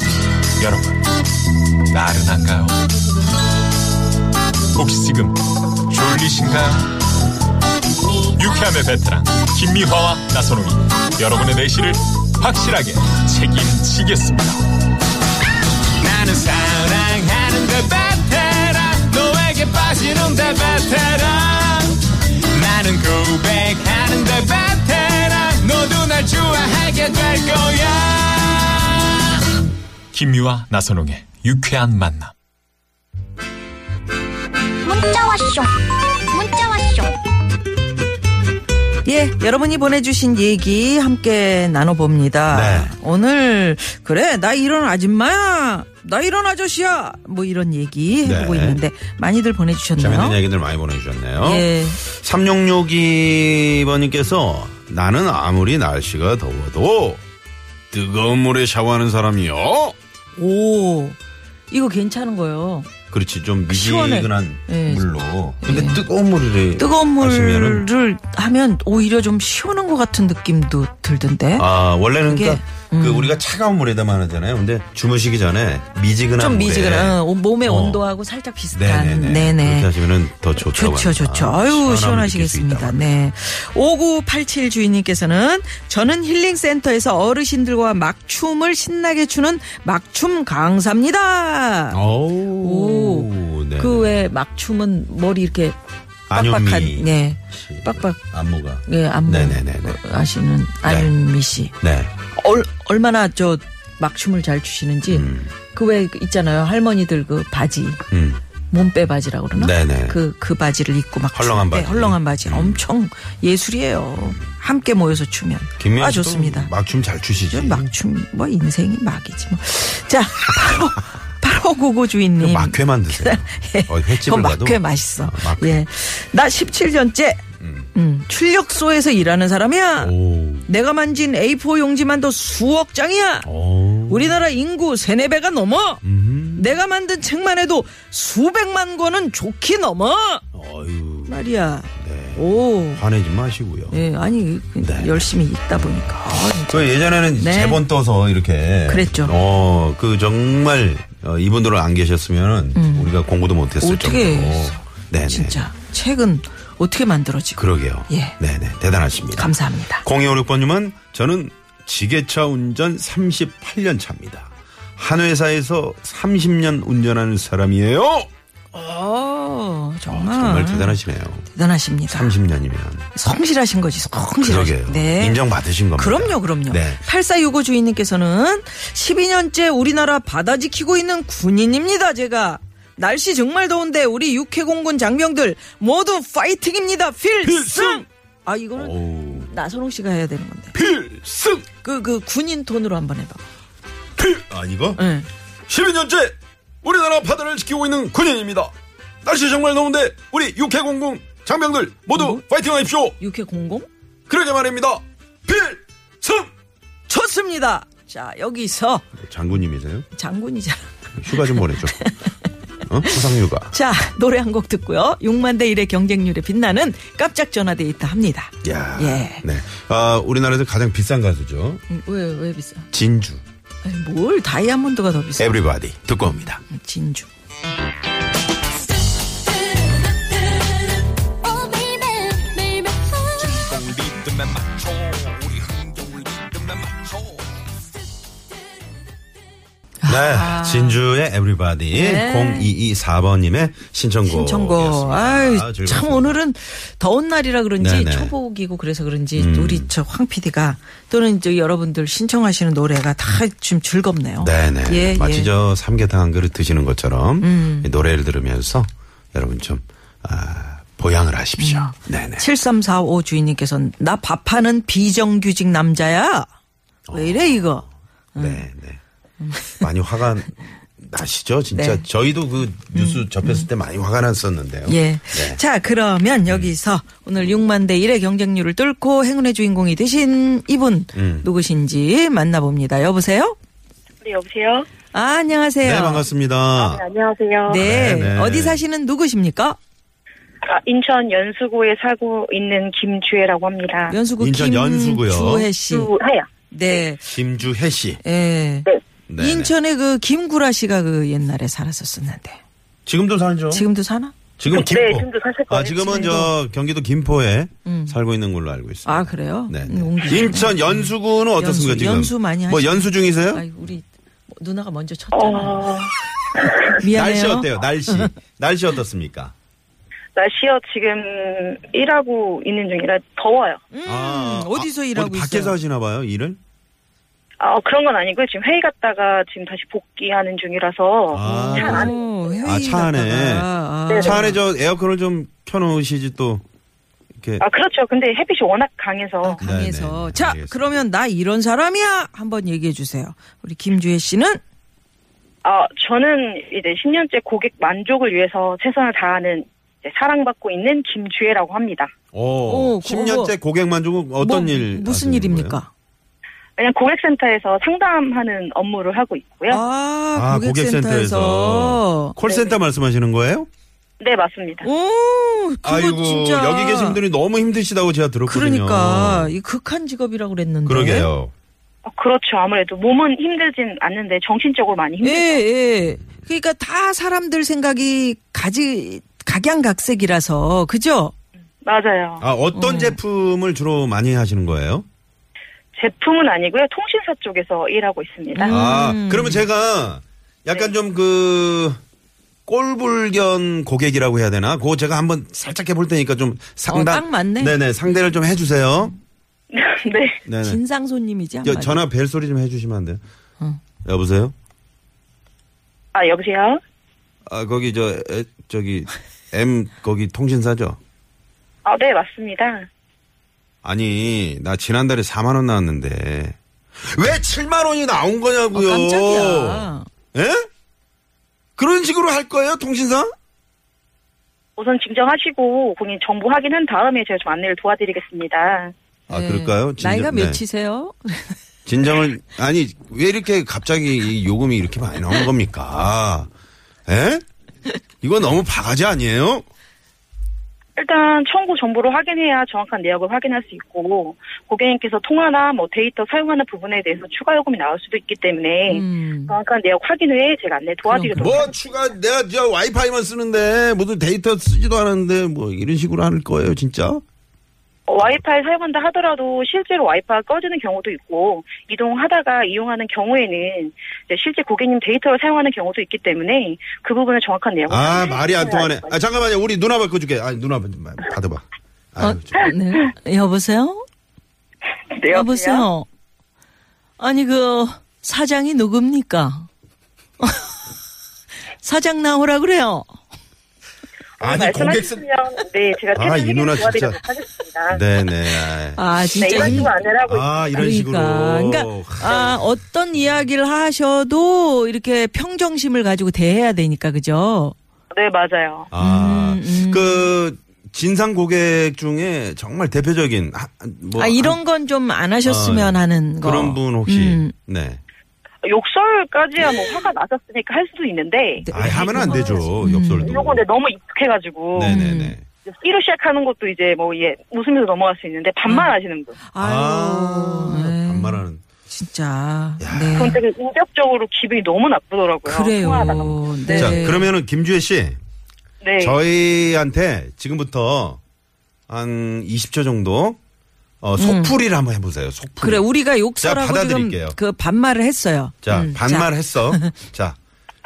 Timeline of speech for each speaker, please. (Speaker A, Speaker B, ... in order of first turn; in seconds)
Speaker A: 0.6-1.0, 1.9-2.8, 4.7-7.0, 8.2-14.6, 16.0-29.4, 30.1-32.3, 233.4-237.2
Speaker B: 34.8-37.2, 231.4-233.5
Speaker C: 39.0-50.4, 51.4-52.0, 60.4-61.2, 61.7-62.9, 63.7-66.0, 66.8-73.4, 76.4-80.0, 80.5-92.0, 92.6-95.8, 96.3-98.2, 98.8-101.7, 102.3-108.0, 108.7-116.7, 117.5-127.4, 127.9-133.5, 134.1-136.0, 136.6-140.4, 141.3-143.0, 143.9-147.8, 148.9-149.3, 152.7-153.1, 153.8-158.4, 159.3-160.0, 168.7-171.0, 171.5-172.3, 173.1-190.7, 191.8-193.4, 194.9-195.3, 202.1-202.4, 203.2-203.9, 207.1-209.0, 210.1-212.3, 213.0-219.4, 221.9-222.9, 223.8-225.6, 226.3-227.3, 240.0-241.0, 241.9-242.7, 244.2-255.5, 257.4-257.9, 261.6-266.5, 267.1-268.7, 269.4-269.9, 271.7-272.1, 272.9-273.7, 274.9-283.6, 285.1-286.2, 287.7-289.8, 294.1-296.1, 296.7-297.4, 298.2-302.6, 303.7-304.4, 306.1-306.5, 307.8-308.2, 309.0-315.9, 317.0-318.3, 323.9-325.8, 331.4-334.6, 339.4-344.6, 352.7-353.6, 354.4-355.9, 359.7-362.4, 364.8-367.2, 368.5-371.3, 375.2-381.3, 382.7-383.2, 388.5-389.7, 396.9-397.8, 400.6-402.0, 418.7-420.1, 429.3-431.6, 448.9-449.5, 451.0-451.7, 472.2-474.0, 475.3-476.1, 477.2-479.7, 480.4-480.7, 481.8-483.1, 488.7-489.9, 490.7-497.7, 498.9-500.3, 504.1-507.5, 511.6-513.4, 514.8-515.4, 519.4-523.4, 525.4-527.3, 534.1-534.6, 535.6-539.9
Speaker D: 42.5-43.0, 48.2-48.8, 50.0-57.2, 57.9-59.9, 63.1-67.9, 71.6-78.0, 78.7-83.0, 91.9-94.2, 96.3-100.0, 100.8-101.1, 101.8-102.1, 105.1-105.5, 108.1-108.4, 109.5-110.2, 111.3-112.8, 115.8-117.9, 122.4-125.8, 127.6-127.9, 130.0-130.7, 133.4-134.5, 136.0-136.8, 140.5-141.4, 142.0-144.0, 144.8-145.3, 146.7-155.7, 157.6-168.3, 170.1-171.5, 172.1-173.1, 174.4-177.0, 187.4-188.0, 188.7-189.5, 190.7-191.7, 194.2-195.0, 195.7-198.7, 199.2-203.2, 204.3-206.5, 209.2-210.1, 211.2-212.0, 212.9-213.7, 218.6-221.8, 222.9-223.4, 225.4-226.6, 240.0-246.4, 247.8-248.3, 249.4-249.9, 254.4-262.5, 267.1-269.0, 269.8-275.6, 281.1-281.5, 285.8-287.0, 287.7-288.8, 294.4-295.7, 297.3-298.2, 299.3-299.7, 303.1-303.9, 304.6-313.6, 317.0-319.5, 324.1-326.6, 331.3-332.1, 332.6-336.6, 337.4-337.6, 339.6-341.0, 352.3-355.8, 360.3-363.7, 365.8-369.6, 370.9-371.5, 382.4-385.0, 388.7-392.0, 392.7-399.1, 400.4-400.8, 401.6-403.2, 404.0-404.5, 407.4-411.0, 413.8-420.6, 421.8-423.3, 429.3-430.6, 431.9-436.5, 437.1-437.4, 438.2-439.6, 451.4-457.2, 467.9-472.6, 484.4-485.2, 486.1-487.2, 487.9-492.6, 498.9-504.6, 505.4-508.0, 511.7-513.6, 514.7-515.5, 519.6-521.6, 522.8-523.3, 526.7-528.2, 529.0-531.2, 531.9-533.4, 534.0-535.9, 536.4-537.4, 538.6-540.4
Speaker E: 284.2-284.9, 286.8-287.9, 290.6-294.2, 295.8-297.0, 304.7-306.3, 315.3-317.0, 320.4-323.8, 327.6-332.7, 334.1-334.4, 337.6-339.6, 345.6-352.1, 356.8-359.8, 362.4-362.8, 364.2-364.9, 372.0-375.6, 381.8-382.4, 385.9-388.8, 399.7-400.4, 406.1-406.8, 411.8-412.9, 424.8-428.9, 440.9-451.7, 458.1-469.1, 475.1-475.9, 484.4-488.0, 489.3-490.5, 492.2-492.5, 498.1-498.9, 508.6-512.6, 513.2-515.0, 515.6-519.4, 523.1-527.1, 528.8-529.1